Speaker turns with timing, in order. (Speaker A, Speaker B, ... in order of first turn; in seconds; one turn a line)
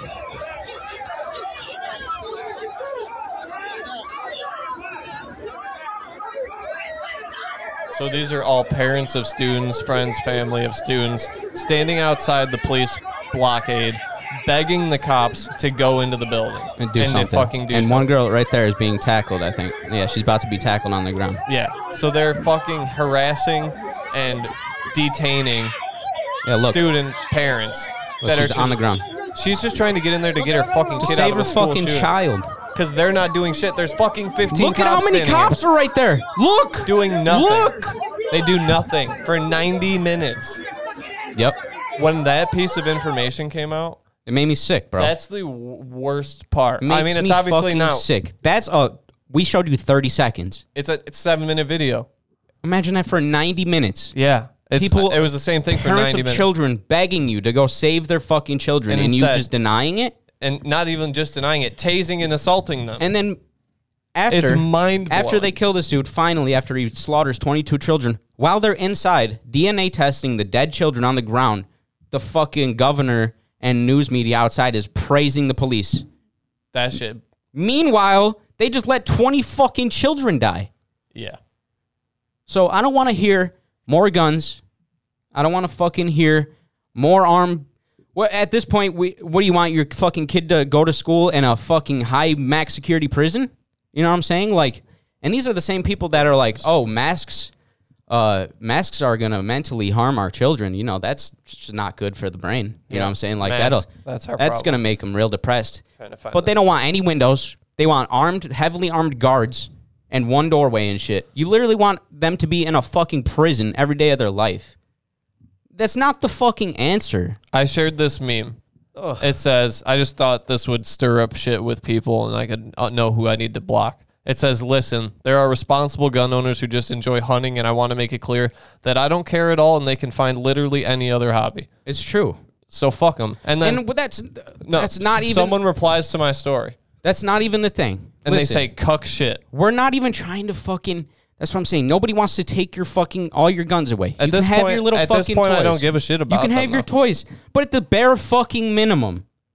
Speaker A: 7.9-18.1
Speaker B: 16.8-21.4
Speaker A: 21.5-25.8
Speaker B: 26.4-26.9
Speaker A: 26.5-28.8
Speaker B: 28.2-29.1
Speaker A: 29.3-32.1
Speaker B: 31.0-32.5
Speaker A: 32.8-35.6
Speaker B: 34.5-38.0
Speaker A: 36.9-37.8
Speaker A: 38.3-40.6
Speaker B: 41.4-41.6
Speaker A: 42.0-44.0
Speaker B: 44.3-45.1
Speaker A: 45.0-48.1
Speaker B: 46.8-50.6
Speaker A: 50.8-52.1
Speaker B: 52.6-54.1
Speaker A: 54.1-56.5
Speaker B: 54.8-60.1
Speaker A: 58.9-59.5
Speaker A: 60.4-63.1
Speaker B: 63.0-63.4
Speaker B: 64.2-76.1
Speaker A: 64.3-65.5
Speaker A: 76.7-77.2
Speaker B: 77.5-80.7
Speaker B: 82.5-84.6
Speaker B: 85.3-97.5
Speaker B: 98.1-103.9
Speaker A: 102.9-104.8
Speaker B: 104.4-114.7
Speaker A: 106.0-106.6
Speaker B: 115.7-117.4
Speaker A: 117.5-118.6
Speaker B: 119.0-119.3
Speaker A: 119.2-131.7
Speaker B: 131.9-132.4
Speaker A: 132.7-133.8
Speaker B: 133.6-135.6
Speaker A: 134.6-136.8
Speaker B: 137.0-138.7
Speaker A: 138.2-139.4
Speaker B: 139.5-149.2
Speaker A: 144.2-146.9